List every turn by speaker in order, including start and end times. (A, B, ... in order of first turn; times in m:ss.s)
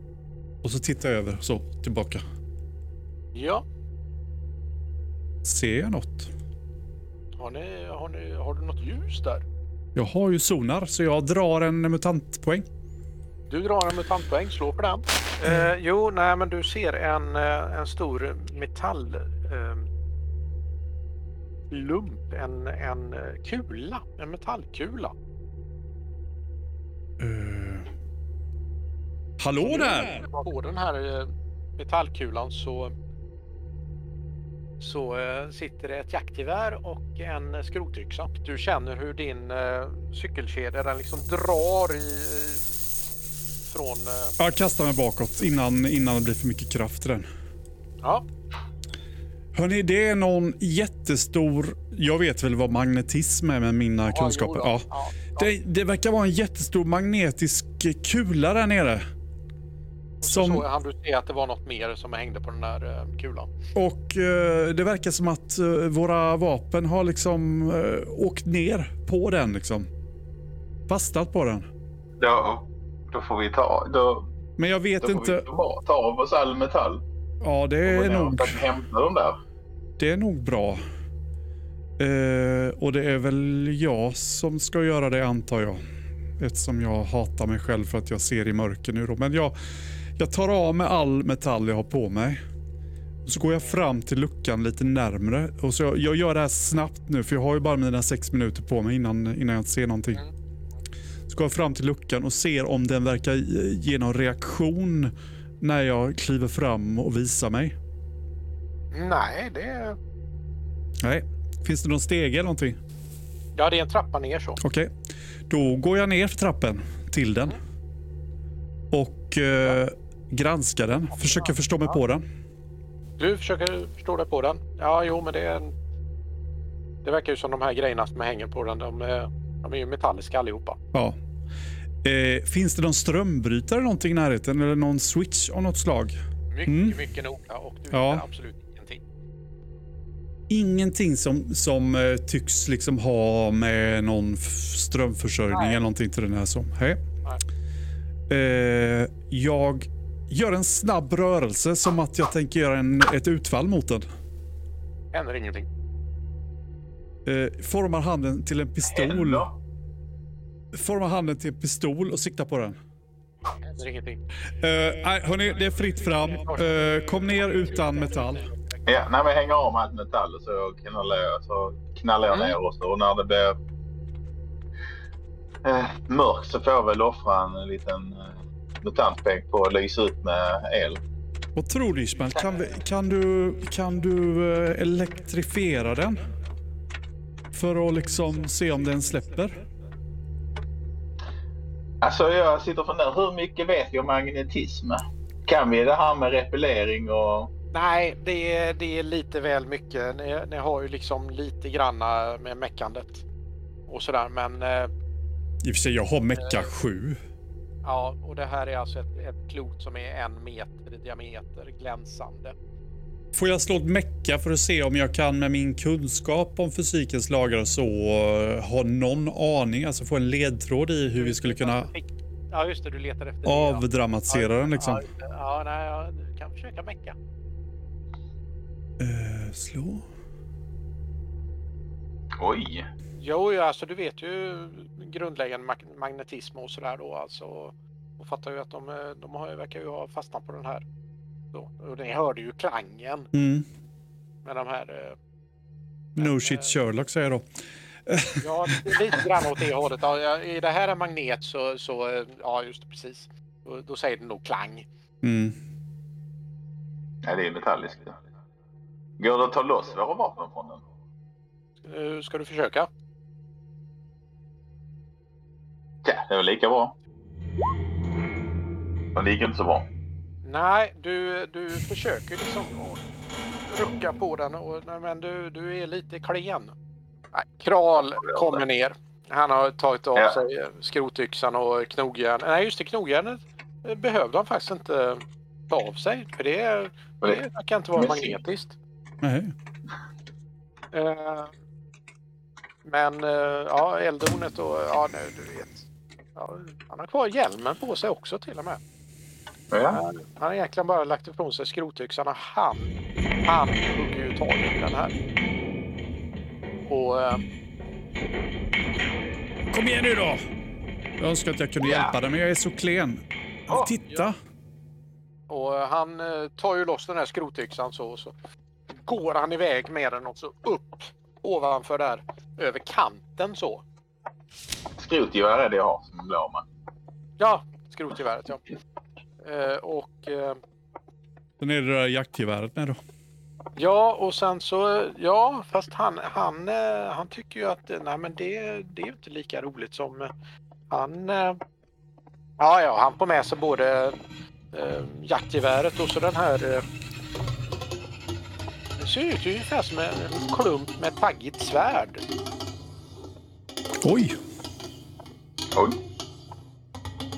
0:00.6-0:02.2 A
0:03.4-0:03.6 B
0:05.4-0:06.3 A
0:07.4-0:09.4 B
0:10.0-0:12.7 A
0:13.5-0:19.9 B
0:15.4-0:15.7 A
0:21.7-0:25.1 B
0:27.2-0:27.9 A
0:29.4-0:30.2 A
0:29.6-0:32.9 B
0:34.8-0:42.7 B
0:43.7-0:44.4 B
0:44.4-0:47.3 A
0:49.5-0:59.0 A
0:54.1-0:55.5 B
1:00.2-1:03.5 B
1:00.2-1:00.7 A
1:03.8-1:09.9 A
1:10.9-1:11.7 A
1:12.2-1:14.3 C
1:14.6-1:15.4 A
1:15.0-1:17.0 C
1:17.4-1:18.6 A
1:17.8-1:19.4 C
1:20.0-1:20.8 A
1:22.0-1:25.8 A
1:26.4-1:29.6 A
1:30.2-1:32.4 A
1:33.2-1:40.2 A
1:41.3-1:47.8 A
1:48.9-1:50.0 B
1:51.0-1:52.8 A
1:53.6-1:54.6 B
1:54.6-1:54.9 A
1:55.5-1:57.6 A
1:58.9-2:02.2 A
2:01.2-2:02.0 B
2:03.2-2:05.7 B
2:07.0-2:10.8 B
2:12.0-2:16.2 A
2:16.5-2:19.0 B
2:16.7-2:17.0 A
2:17.9-2:18.2 A
2:20.5-2:27.0 A
2:25.5-2:25.8 B
2:28.3-2:34.0 A
2:35.1-2:35.7 B
2:37.3-2:39.5 A
2:38.9-2:39.6 C
2:40.7-2:42.8 A
2:43.6-2:44.2 B
2:44.6-2:48.5 A
2:46.4-2:48.8 B
2:48.9-2:53.6 C
2:52.3-2:52.6 B
2:55.6-3:01.0 C
3:01.6-3:06.2 A
3:07.5-3:09.6 A
3:12.0-3:17.5 C
3:17.7-3:23.2 B
3:23.9-3:24.9 B
3:25.6-3:27.2 A
3:26.3-3:26.7 B
3:27.8-3:32.6 B
3:33.3-3:41.9 A
3:41.2-3:47.2 B
3:43.4-3:45.0 A
3:49.0-3:50.0 A
3:52.4-3:52.9 C
3:53.2-4:00.8 B
4:01.5-4:03.3 B
4:03.3-4:03.7 A
4:04.4-4:05.2 B
4:06.2-4:07.5 A
4:06.2-4:06.8 B
4:08.1-4:09.0 A
4:08.4-4:14.9 B
4:15.2-4:15.6 A
4:17.2-4:18.2 C
4:19.2-4:20.8 C
4:21.8-4:22.9 B
4:26.0-4:27.0 C
4:29.2-4:29.9 C
4:30.4-4:33.0 B
4:33.7-4:36.8 B
4:37.3-4:48.8 B
4:38.0-4:38.6 C
4:48.0-4:48.4 C
4:49.2-4:49.5 A
4:50.9-4:51.5 B
4:52.8-4:58.8 B
4:59.7-5:00.0 C
4:59.9-5:05.2 B
5:06.9-5:07.4 B
5:09.7-5:10.4 A
5:11.2-5:14.4 A
5:11.8-5:12.2 C
5:15.5-5:18.3 B
5:18.9-5:23.8 B
5:25.0-5:26.6 C
5:27.4-5:28.6 B
5:29.4-5:30.6 B
5:31.6-5:33.0 A
5:33.8-5:40.3 B
5:40.9-5:41.6 B
5:42.6-5:44.2 B
5:44.7-5:46.8 B
5:49.0-5:52.2 B
5:54.0-5:54.4 A